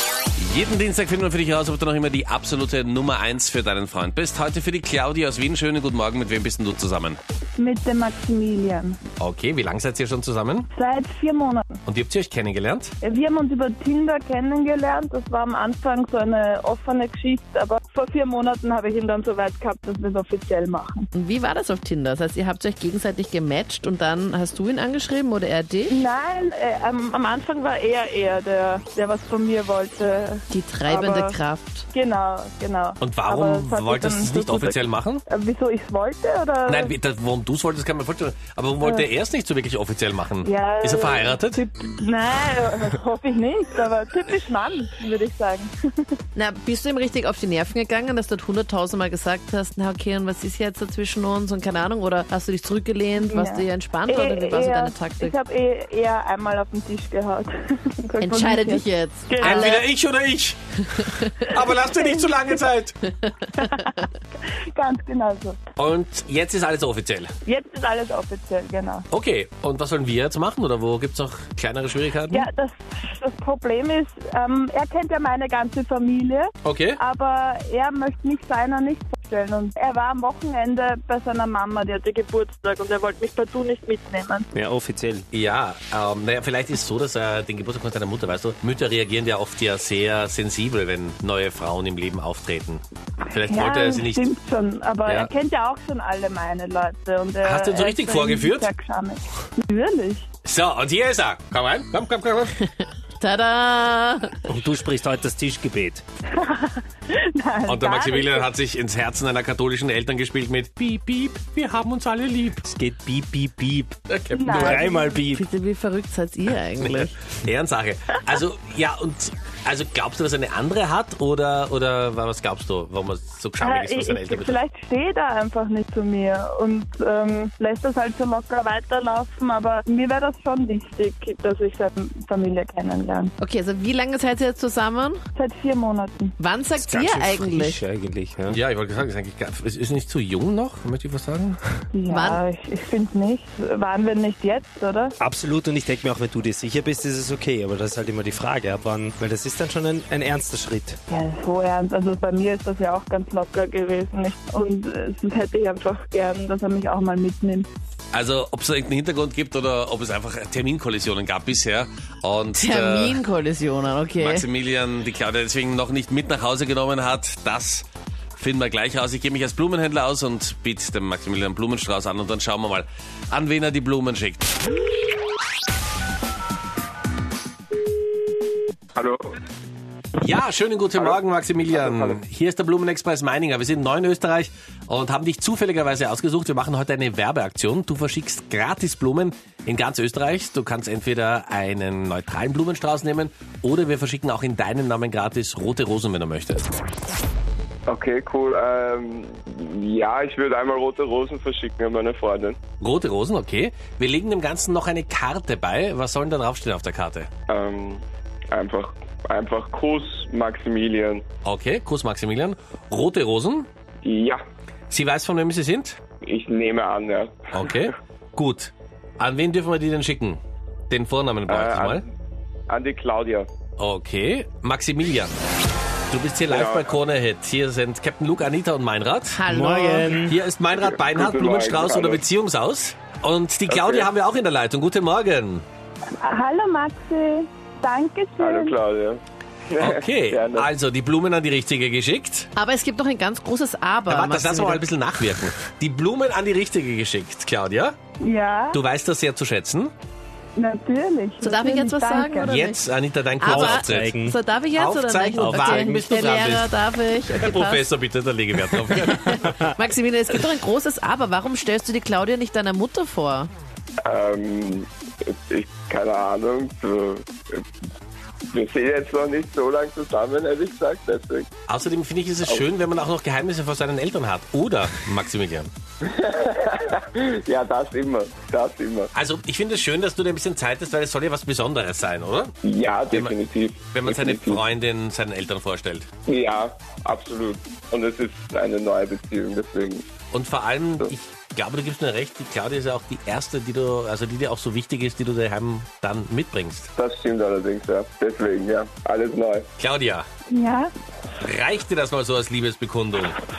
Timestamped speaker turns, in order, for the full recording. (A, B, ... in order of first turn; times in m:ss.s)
0:00.4-0:07.2 A
0:07.6-0:09.0 B
0:09.2-0:10.7 A
0:10.7-0:11.8 B
0:11.9-0:12.9 A
0:13.0-0:21.1 B
0:21.1-0:26.0 C
0:25.9-0:31.4 B
0:30.5-0:31.9 C
0:31.9-0:36.9 B
0:33.0-0:35.2 A
0:36.7-0:41.6 A
0:38.8-0:39.1 B
0:40.4-0:46.2 B
0:46.4-0:55.4 C
0:53.2-0:59.7 B
0:58.2-0:59.9 C
0:59.4-1:03.0 A
1:01.6-1:02.6 B
1:03.5-1:04.0 C
1:03.6-1:05.6 B
1:05.8-1:07.3 A
1:07.4-1:09.1 B
1:09.1-1:12.5 A
1:12.3-1:24.5 B
1:16.6-1:17.0 A
1:24.6-1:25.3 D
1:25.3-1:34.3 A
1:33.3-1:40.3 B
1:37.4-1:38.7 A
1:40.4-1:42.6 A
1:43.2-1:44.6 C
1:44.5-1:46.0 D
1:46.3-1:48.5 B
1:47.7-1:52.6 A
1:52.6-1:54.0 D
1:54.1-1:54.8 A
1:54.3-1:55.2 B
1:54.6-1:55.4 D
1:55.3-1:57.1 C
1:56.8-2:04.6 A
2:03.6-2:13.3 B
2:13.4-2:15.2 C
2:15.4-2:16.3 B
2:16.4-2:17.8 C
2:16.8-2:18.6 D
2:18.5-2:21.6 A
2:21.9-2:25.2 B
2:22.1-2:22.4 C
2:25.2-2:31.0 D
2:31.1-2:37.7 B
2:38.1-2:43.2 A
2:42.6-2:44.5 C
2:44.2-2:54.5 A
2:59.0-2:59.4 E
3:00.2-3:16.7 A
3:01.7-3:02.2 E
3:17.9-3:22.6 E
3:22.8-3:27.3 A
3:27.5-3:31.2 E
3:31.4-3:33.7 A
3:34.0-3:34.4 E
3:34.9-3:36.0 A
3:36.2-3:37.8 E
3:37.5-3:42.0 A
3:41.5-3:42.1 E
3:42.7-3:43.5 E
3:43.8-3:45.4 A
3:46.1-3:49.4 A
3:46.5-3:47.0 E
3:49.3-3:50.1 C
3:49.5-3:50.4 D
3:50.3-3:55.6 A
3:50.7-3:52.2 E
3:53.7-3:54.1 E
3:56.2-3:58.8 B
3:58.4-4:00.7 E
3:59.8-4:02.5 A
4:02.6-4:04.8 C
4:04.1-4:08.0 A
4:08.2-4:08.8 B
4:08.7-4:09.9 A
4:10.6-4:12.5 B
4:11.4-4:12.8 C
4:12.4-4:14.2 A
4:13.4-4:17.9 C
4:13.4-4:14.4 D
4:14.7-4:16.7 A
4:15.4-4:16.1 D
4:17.3-4:19.5 A
4:19.1-4:23.5 C
4:24.0-4:27.6 E
4:28.5-4:31.5 E
4:31.7-4:35.7 A
4:36.0-4:39.1 E
4:39.1-4:42.5 A
4:42.6-4:44.6 E
4:43.1-4:43.4 A
4:43.9-4:46.1 A
4:46.3-4:50.1 E
4:50.3-4:56.9 A
4:57.0-4:59.7 E
4:59.8-5:00.3 A
5:00.5-5:00.9 B
5:01.4-5:03.4 A